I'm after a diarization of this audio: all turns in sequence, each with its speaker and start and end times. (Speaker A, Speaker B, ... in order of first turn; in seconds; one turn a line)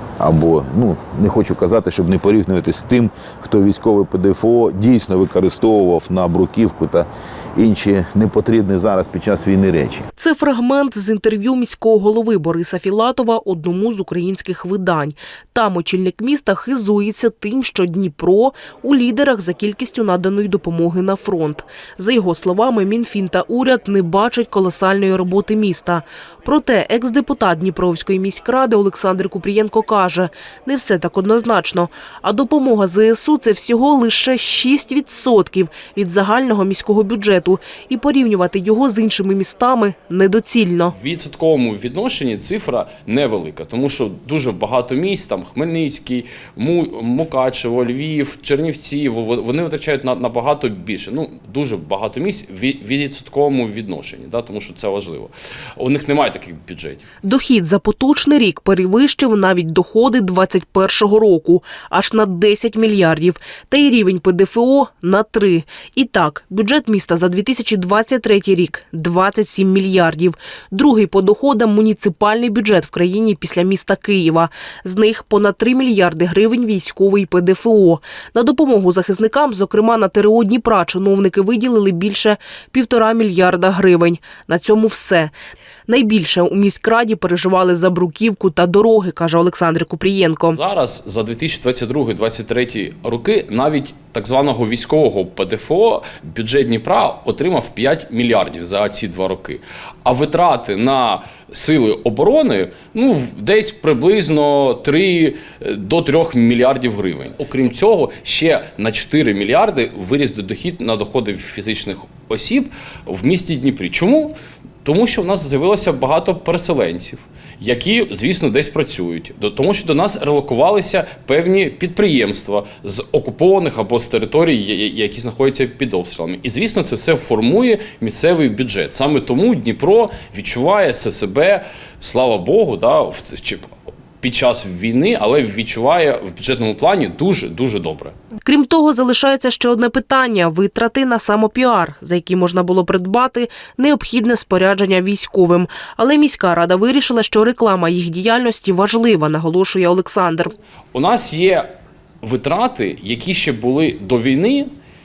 Speaker A: 0.2-10.1
Speaker B: 10.2-40.9
Speaker C: 40.9-57.0
Speaker B: 57.2-85.3
Speaker B: 85.9-90.6
Speaker C: 90.5-133.6
Speaker C: 134.2-138.1
Speaker B: 138.4-150.5
Speaker C: 150.9-151.7
Speaker C: 152.2-154.7